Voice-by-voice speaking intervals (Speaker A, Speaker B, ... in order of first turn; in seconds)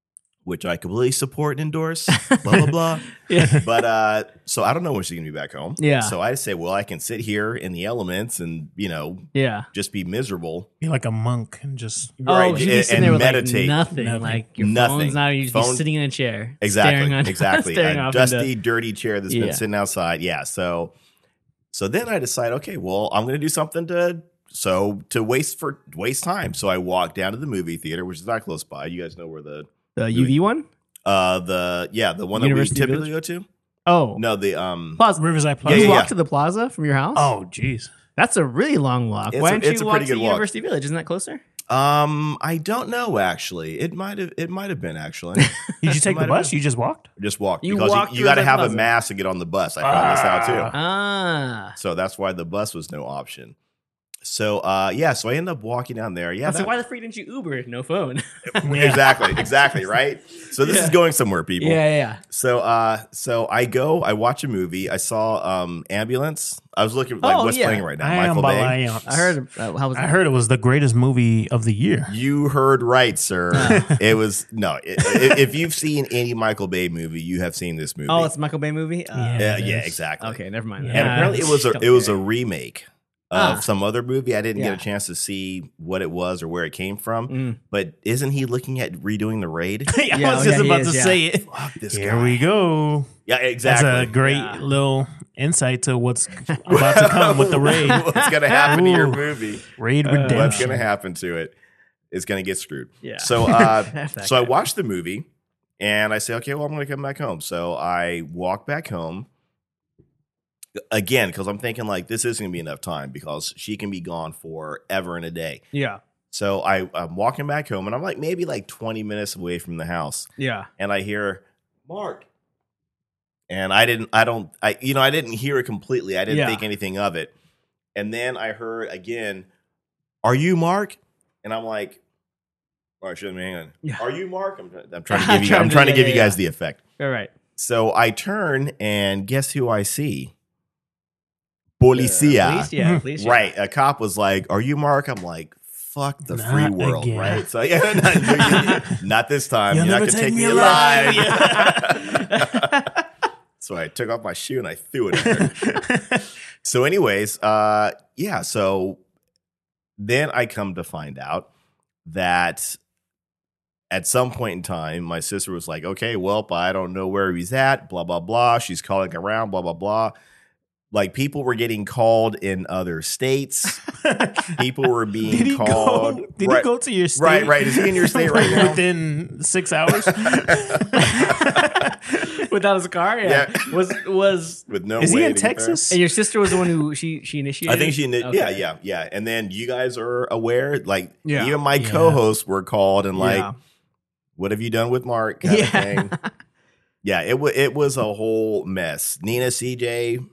Speaker A: 0.5-10.7, 12.2-13.8, 14.6-15.8, 16.6-20.9, 21.7-30.3, 31.1-33.5, 34.2-35.0, 35.6-36.1, 39.3-40.5, 41.7-46.5, 47.2-50.7, 51.8-53.6, 54.2-56.7, 58.5-68.8, 72.1-78.3, 79.4-80.4, 80.9-89.9, 91.5-92.5, 93.3-94.2, 96.7-99.6, 100.2-101.5, 102.1-105.3, 105.8-109.3, 110.9-115.6, 116.3-122.3, 123.5-127.3, 128.0-129.5, 130.2-132.0, 133.0-136.8, 137.6-140.3, 141.8-152.8, 153.6-155.8, 156.6-159.0, 160.0-161.5, 162.1-162.8, 163.9-170.1, 170.9-173.8, 174.5-178.8, 179.9-181.7, 183.2-183.8, 184.7-185.8, 187.7-193.5, 194.4-196.2, 197.0-200.2
Speaker B: 2.1-3.7, 5.8-6.1, 9.3-9.7, 12.2-18.5, 19.3-19.6, 30.0-30.7, 32.4-33.1, 33.9-34.2, 35.0-37.3, 38.2-41.4, 47.6-48.9, 50.7-51.8, 56.5-59.5, 60.6-61.0, 61.6-62.2, 67.2-67.9, 69.0-70.2, 73.5-73.9, 78.1-82.2, 83.3-83.7, 84.5-84.8, 87.3-87.6, 90.1-91.2, 94.2-94.6, 97.9-98.8, 100.1-100.7, 103.0-104.5, 115.7-116.0, 120.4-120.7, 126.3-126.6, 135.1-136.4, 137.0-137.3, 141.9-143.5, 150.8-153.0, 181.0-181.4, 182.2-184.6, 185.9-188.6, 191.2-191.6, 193.2-193.5, 195.4-196.3
Speaker C: 10.8-12.2, 13.9-14.4, 35.2-36.0, 37.1-37.9, 45.8-47.1, 49.8-50.7, 58.6-59.1, 68.0-69.4, 70.0-72.2, 73.6-74.0, 79.2-79.8, 80.8-81.5, 89.9-93.1, 93.6-98.1, 98.7-100.8, 142.8-143.0, 146.3-149.0, 149.7-152.0, 155.2-156.3, 173.9-174.6, 175.2-182.3, 185.0-186.0, 191.8-192.2